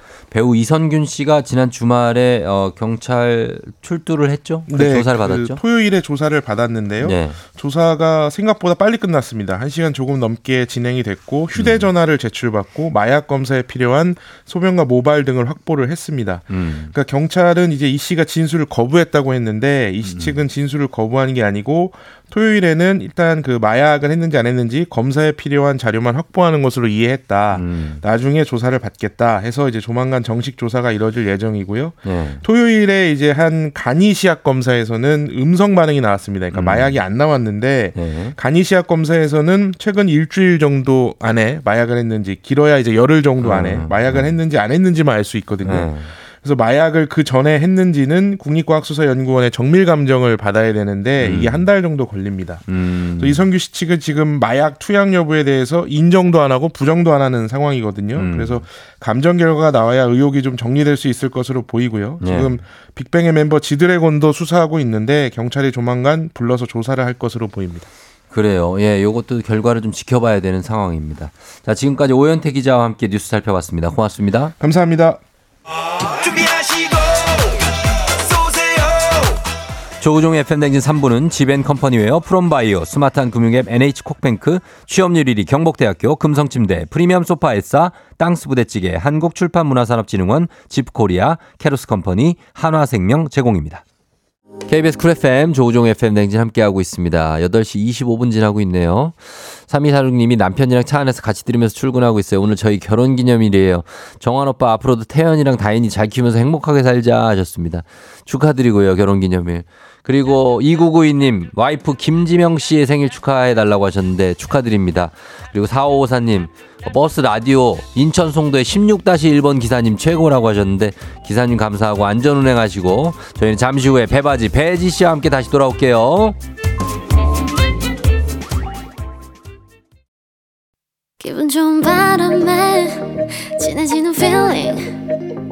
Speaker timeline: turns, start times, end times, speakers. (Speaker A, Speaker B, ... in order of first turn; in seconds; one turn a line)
Speaker A: 0.3-5.6
Speaker B: 4.7-52.7
Speaker A: 7.0-7.4
Speaker A: 11.6-11.9
Speaker A: 16.5-16.9
Speaker A: 20.0-20.4
Speaker A: 27.5-28.0
Speaker A: 32.0-32.4
Speaker A: 36.5-37.0
Speaker A: 37.9-38.4
Speaker A: 43.4-44.4
Speaker A: 45.6-46.1
Speaker A: 51.2-51.7
Speaker A: 52.7-53.5
Speaker B: 53.2-67.9
Speaker A: 58.2-58.6
Speaker A: 62.2-62.5
Speaker A: 68.3-74.5
Speaker B: 74.6-75.2
Speaker A: 80.0-93.8
Speaker A: 94.7-126.4
Speaker C: 131.2-135.1